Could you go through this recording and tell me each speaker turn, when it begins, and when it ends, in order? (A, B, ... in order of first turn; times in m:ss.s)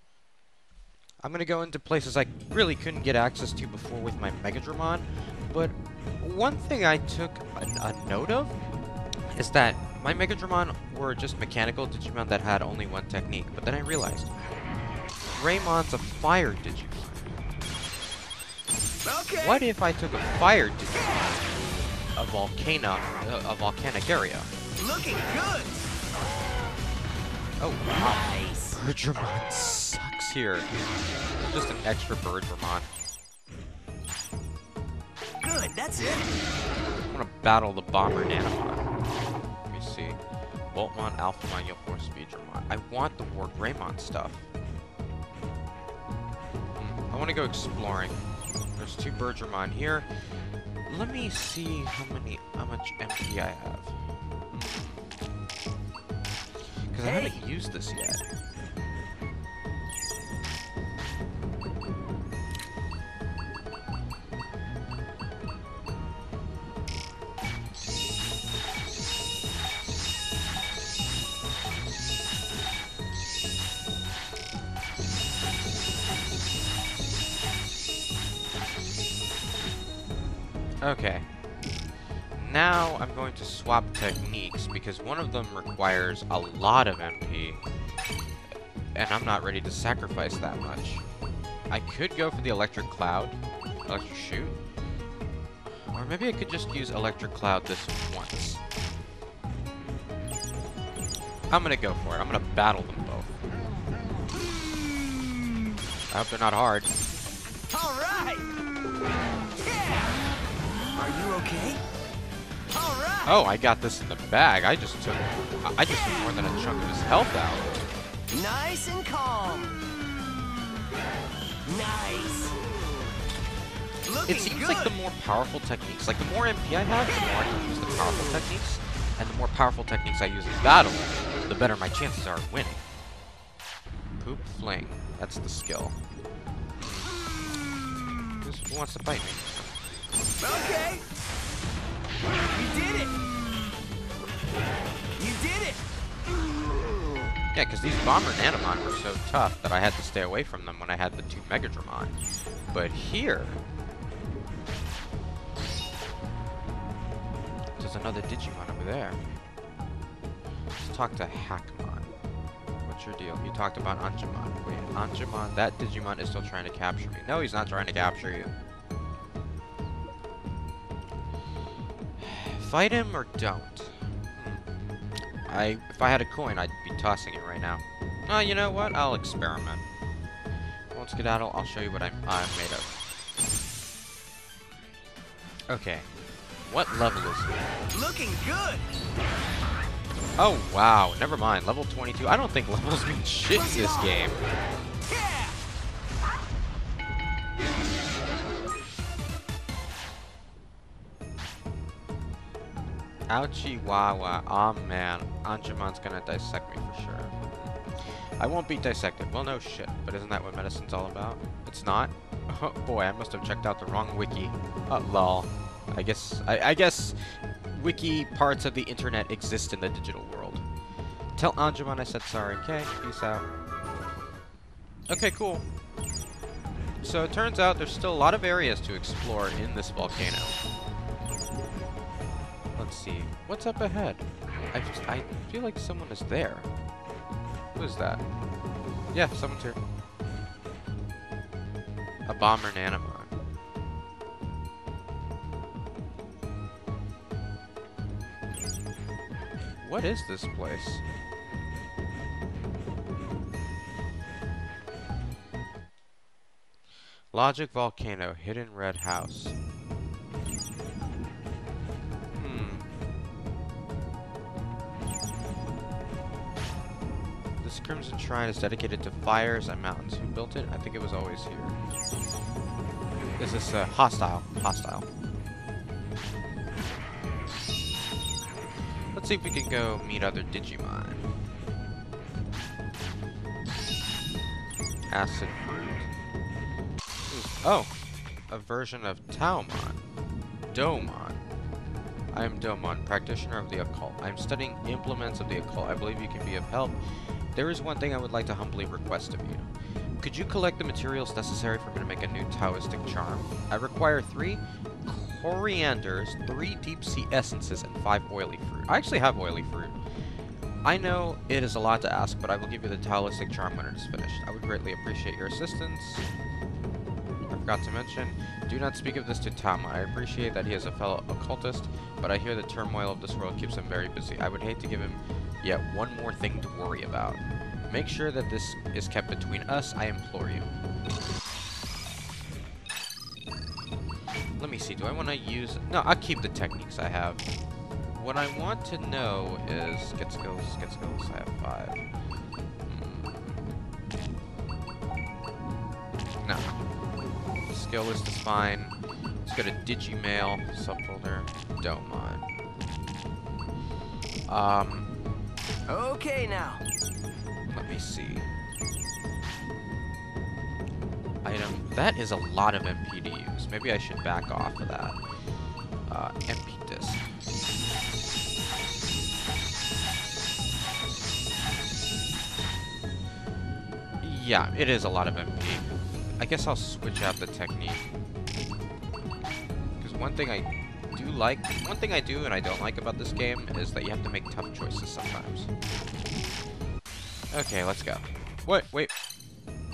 0:01.2-0:08.6 A
0:09.3-0:14.3 A
0:15.4-0:17.4 A
0:19.0-0:19.6 B
0:19.4-0:24.5 A
0:24.8-0:25.9 B
0:27.6-0:30.7 A
0:27.9-0:28.8 B
0:31.4-0:32.9 A
0:35.4-0:36.3 B
0:37.1-0:38.9 A
0:39.7-0:40.2 A
0:40.7-0:44.5 A
0:46.8-0:48.2 A
0:48.8-0:50.1 A
0:50.9-0:54.0 A
0:54.5-0:55.0 A
0:56.9-0:58.2 A
0:57.0-0:57.4 B
1:20.8-1:21.3 A
1:22.4-1:27.6 A
1:29.0-1:31.0 A
1:31.7-1:34.6 A
1:35.9-1:38.6 A
1:41.5-1:43.4 A
1:46.1-1:46.9 A
1:47.7-1:48.5 B
1:49.5-1:50.2 B
1:51.0-1:51.8 B
1:52.7-1:53.3 B
1:53.2-1:57.7 A
1:58.3-1:59.8 B
2:01.6-2:02.6 B
2:04.0-2:04.9 B
2:04.3-2:12.8 A
2:14.2-2:16.0 A
2:16.8-2:17.1 A
2:18.4-2:20.0 A
2:20.4-2:21.0 B
2:22.5-2:23.2 B
2:25.2-2:25.8 B
2:27.5-2:32.2 A
2:32.7-2:33.6 A
2:37.8-2:39.2 A
2:40.8-2:42.1 A
2:42.8-2:48.5 A
2:52.2-2:54.7 A
2:55.5-2:59.8 A
3:00.9-3:03.0 A
3:05.7-3:06.1 A
3:06.6-3:07.6 A
3:07.9-3:08.8 B
3:10.4-3:14.4 A
3:13.5-3:14.3 B
3:15.0-3:15.6 B
3:23.3-3:40.6 A
3:41.4-3:43.5 A
3:45.1-3:45.6 A
3:47.0-3:50.6 A
3:52.8-3:56.7 A
3:57.8-3:58.2 A
3:59.1-3:59.8 A
4:02.3-4:03.3 A
4:09.8-4:11.0 A
4:17.3-4:19.6 A
4:22.4-4:22.9 A
4:27.6-4:31.8 A
4:33.4-4:35.1 A
4:39.1-4:41.3 A
4:45.1-4:46.1 A
4:47.3-4:47.9 A
4:48.5-4:50.0 A
4:50.7-4:51.4 A
4:52.3-4:57.0 A
4:57.5-4:59.7 A
5:00.2-5:10.0 A
5:10.8-5:16.3 A
5:17.5-5:30.7 A
5:34.6-5:37.4 A
5:38.1-5:42.0 A
5:42.9-5:43.6 A
5:46.4-5:46.8 A
5:47.7-5:52.5 A
5:54.5-5:55.1 A
5:55.9-5:56.8 B
5:57.7-5:58.5 A
6:01.4-6:05.2 A
6:06.1-6:07.3 A
6:14.2-6:18.1 A
6:20.0-6:25.7 A
6:27.5-6:29.1 A